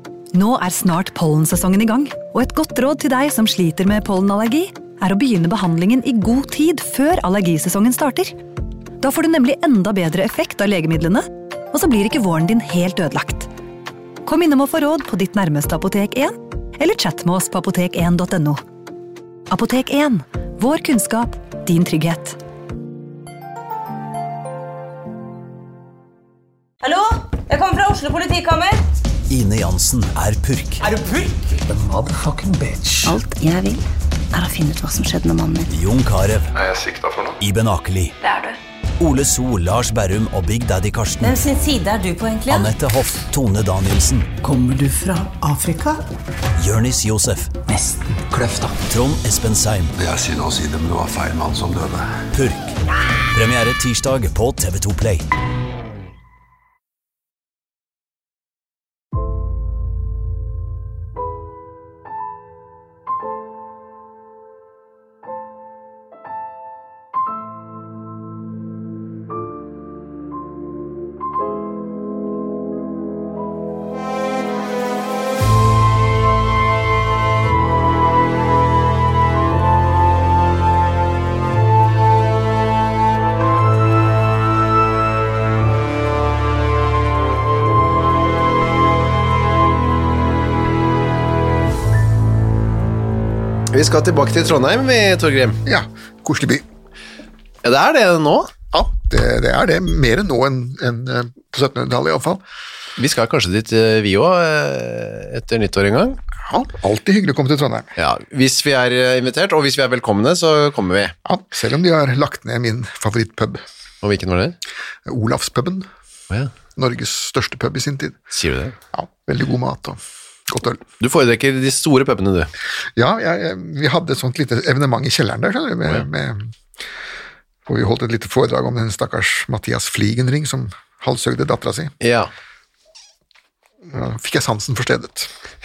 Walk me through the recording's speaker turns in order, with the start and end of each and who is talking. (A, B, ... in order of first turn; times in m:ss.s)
0:00.3-0:08.4 A
0:09.0-0:13.5 A
0:14.2-0:18.6 A
0:19.5-0:22.4 A
0:26.8-0:28.8 B
0:29.3-0:30.9 C
0:31.7-0:33.2 D
0:33.0-0:35.7 E
0:35.7-0:36.5 C
0:36.6-0:37.4 F
0:37.4-0:38.1 C
0:38.2-0:38.6 B
0:39.0-0:41.4 C
0:41.2-0:42.8 B
0:42.5-0:44.3 C
0:44.4-0:46.0 D
0:46.6-0:47.6 C
0:47.7-0:48.8 D
0:48.9-0:49.9 C
0:50.0-0:52.2 F
0:52.3-0:52.8 C
0:53.3-0:55.3 C
1:33.7-1:35.6 G
1:35.7-1:36.6 H
1:37.6-1:38.5 G
1:38.7-1:42.4 H
1:43.0-1:46.2 G
1:46.5-1:47.9 H
1:48.0-1:51.2 G
1:51.3-1:53.6 H
1:54.0-1:54.6 G
1:55.1-1:55.9 H
1:56.8-1:58.2 H
1:58.3-1:58.8 G
1:58.9-2:00.8 H
2:01.0-2:02.5 G
2:03.0-2:06.5 H
2:07.7-2:11.9 H
2:12.0-2:12.3 G
2:13.9-2:15.3 H